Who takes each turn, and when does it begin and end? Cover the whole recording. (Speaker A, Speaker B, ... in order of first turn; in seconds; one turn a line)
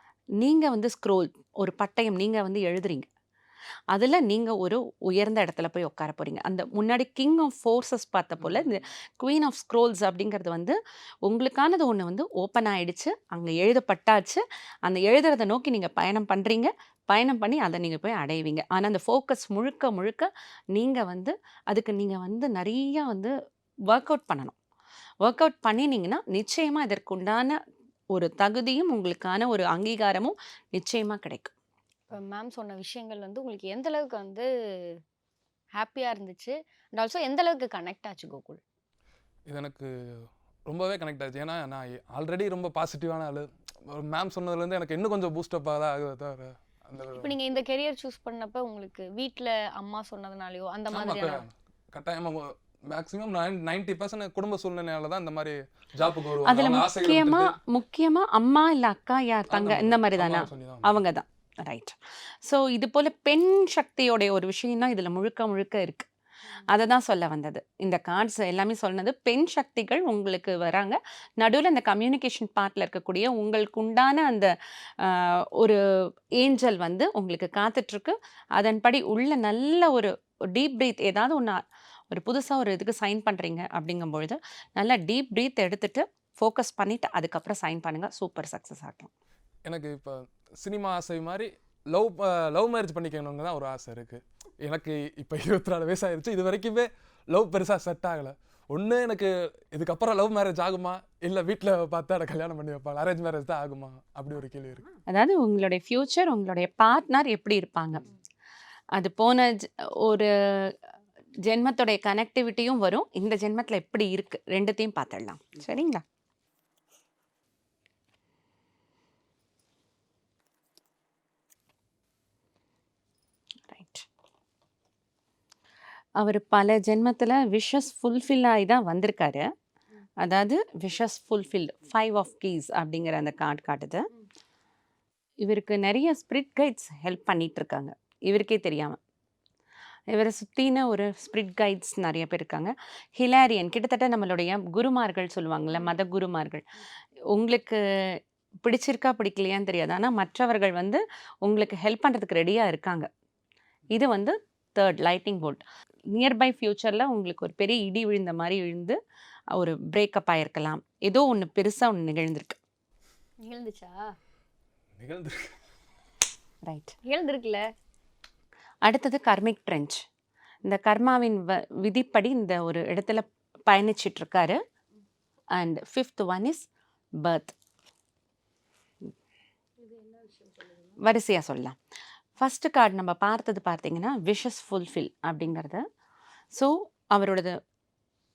Speaker A: 0.4-3.1
Speaker A: 3.9-23.3
Speaker A: 23.9-24.6
Speaker A: 25.2-27.6
Speaker A: 28.1-31.5
Speaker B: 32.1-35.0
Speaker B: 35.8-38.6
Speaker C: 39.5-47.3
Speaker B: 47.2-51.4
Speaker C: 50.9-57.5
Speaker A: 56.5-66.1
Speaker C: 59.5-60.9
Speaker A: 66.7-89.1
Speaker C: 89.7-104.9
Speaker A: 105.0-108.0
Speaker A: 108.9-110.8
Speaker A: 111.5-116.0
Speaker A: 123.7-124.1
Speaker A: 126.2-129.5
Speaker A: 130.2-134.1
Speaker A: 135.4-139.0
Speaker A: 140.1-146.7
Speaker A: 147.3-153.1
Speaker A: 153.9-159.0
Speaker A: 159.5-162.6
Speaker B: 163.4-164.1
Speaker C: 165.0-165.5
Speaker A: 166.6-166.9
Speaker B: 167.1-167.7
Speaker A: 168.8-170.0
Speaker A: 170.6-174.6
Speaker A: 175.5-177.6
Speaker A: 181.0-181.8
Speaker A: 182.4-185.8
Speaker A: 186.5-187.6